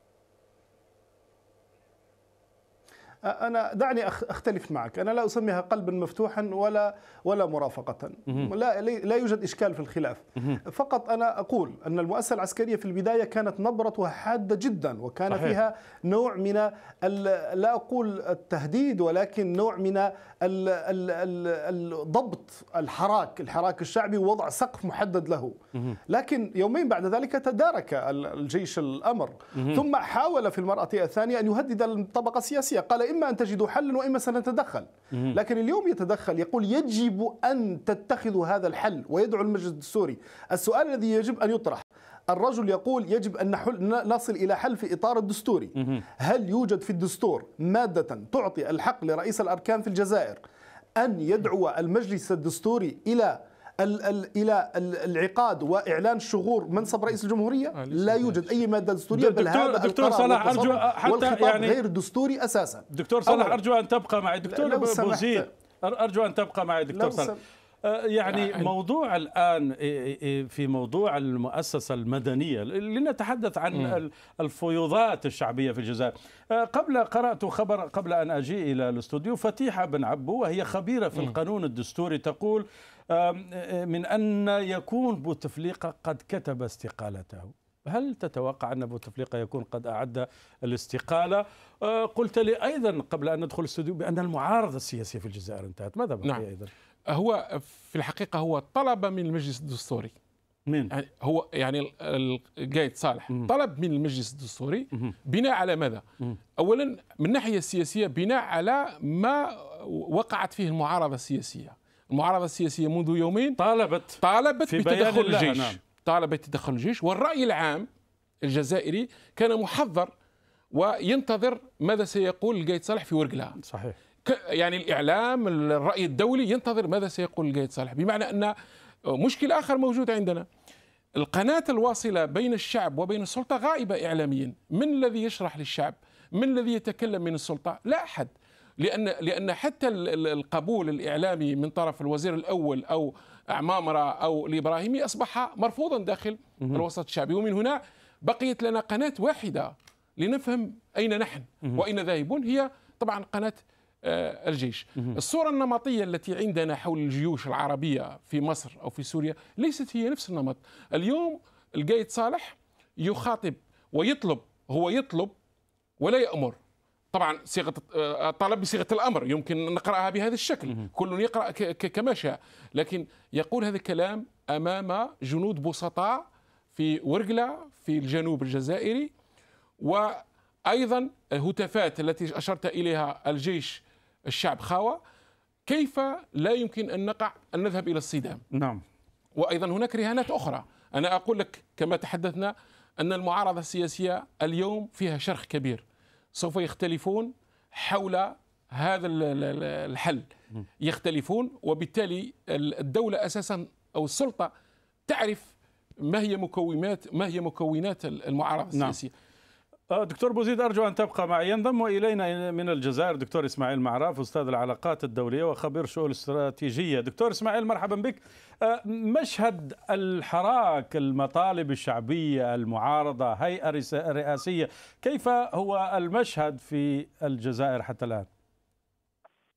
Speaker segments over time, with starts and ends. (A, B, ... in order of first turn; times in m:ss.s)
0:03.2-0:50.4 A
0:15.3-0:15.6 B
0:29.6-0:29.8 B
0:51.0-1:03.6 A
0:59.1-1:01.8 B
1:02.9-1:07.3 B
1:04.4-1:05.5 A
1:06.9-1:07.4 A
1:07.8-1:36.7 B
1:08.3-1:08.7 C
1:37.1-1:40.1 C
1:40.7-1:40.9 B
1:40.9-1:46.0 C
1:46.6-1:53.6 C
1:53.6-1:55.8 B
1:54.2-1:57.9 C
1:58.4-2:00.1 C
2:00.7-2:03.6 C
2:03.6-2:04.0 B
2:04.2-2:08.5 C
2:09.1-2:10.4 C
2:11.2-2:45.3 C
2:46.0-2:46.6 C
2:47.1-2:59.1 C
2:59.8-3:05.0 C
3:05.6-3:08.4 C
3:08.5-3:08.8 B
3:09.4-3:15.8 C
3:16.3-3:20.2 C
3:20.8-3:24.5 C
3:25.1-3:29.1 C
3:29.9-3:48.3 B